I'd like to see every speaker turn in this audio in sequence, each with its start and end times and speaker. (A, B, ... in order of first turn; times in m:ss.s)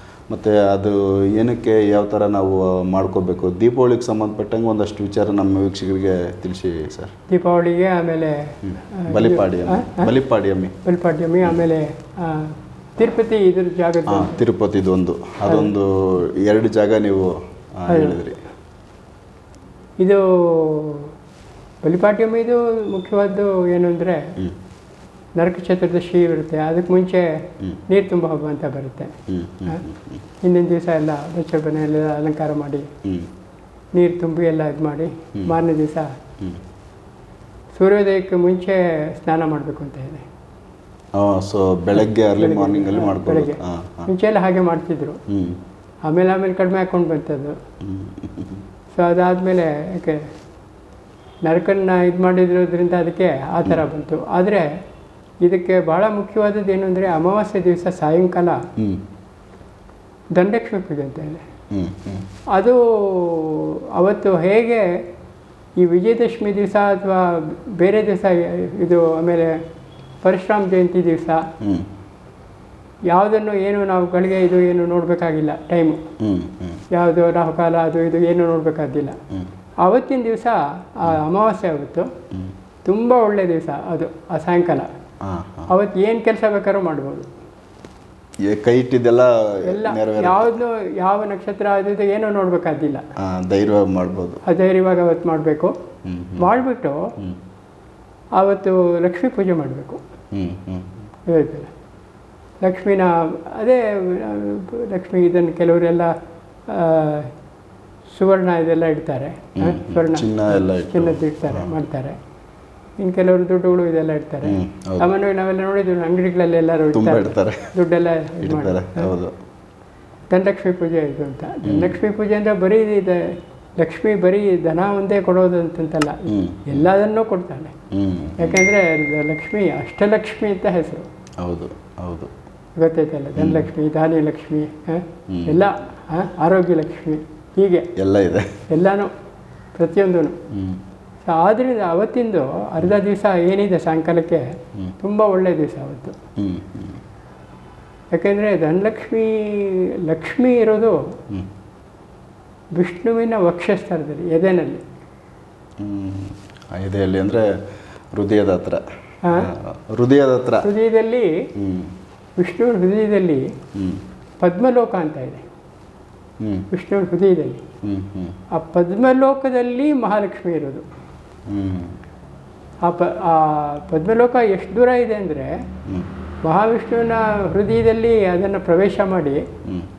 0:00.3-0:07.1 A
0:07.3-0:10.1 B
0:08.7-0:10.7 A
0:10.8-0:14.4 B
0:14.1-0:18.4 A
0:17.9-0:18.2 B
0:20.0-0:21.1 B
0:21.8-0:24.3 B
0:25.4-0:27.3 B
0:27.9-0:29.1 B
0:29.3-0:30.2 A
0:30.4-0:32.9 B
0:33.0-0:33.3 A
0:33.9-0:36.1 B
0:37.8-0:40.2 B
0:41.2-0:44.1 A
0:42.0-0:45.2 B
0:45.3-0:45.6 A
0:46.0-0:47.6 B
0:47.8-0:48.6 A
0:48.9-0:50.3 B
0:51.4-0:54.7 B
0:55.4-0:58.6 B
0:58.8-0:59.0 A
1:00.4-1:01.4 B
1:01.7-1:02.2 A
1:02.5-1:04.9 B
1:05.8-1:09.6 B
1:10.2-1:11.4 B
1:11.6-1:11.9 A
1:13.1-1:16.0 B
1:16.2-1:16.8 A
1:16.9-1:19.2 B
1:19.8-1:22.1 B
1:22.8-1:24.9 B
1:25.2-1:25.7 A
1:25.7-1:27.3 B
1:28.4-1:30.6 A
1:29.6-1:33.0 B
1:33.2-1:34.4 A
1:34.4-1:35.7 B
1:36.0-1:36.6 A
1:36.4-1:37.1 B
1:38.4-1:40.0 B
1:40.3-1:41.0 A
1:41.3-1:41.7 B
1:42.6-1:46.1 B
1:46.7-1:47.3 B
1:48.1-1:52.2 B
1:49.6-1:51.7 A
1:53.0-1:59.1 B
1:54.4-1:55.1 A
1:56.9-1:57.7 A
1:58.4-1:59.3 A
2:00.3-2:07.7 B
2:01.6-2:02.0 A
2:06.2-2:06.9 A
2:07.9-2:08.7 A
2:08.4-2:11.0 B
2:11.4-2:12.3 A
2:12.8-2:17.9 B
2:13.3-2:13.7 A
2:15.3-2:15.6 A
2:18.0-2:18.6 A
2:18.7-2:19.1 B
2:19.8-2:20.4 B
2:20.5-2:20.8 A
2:21.2-2:26.2 B
2:26.4-2:27.0 A
2:28.1-2:31.0 B
2:32.8-2:34.8 B
2:35.8-2:37.6 A
2:38.1-2:40.7 A
2:39.2-2:39.5 B
2:40.6-2:41.5 B
2:41.6-2:41.9 A
2:42.4-2:43.5 B
2:43.7-2:44.0 A
2:44.4-2:45.4 B
2:46.4-2:46.7 A
2:46.7-2:47.6 B
2:47.8-2:48.4 A
2:48.5-2:50.8 B
2:51.5-2:52.0 A
2:52.8-2:55.6 B
2:56.4-2:59.4 B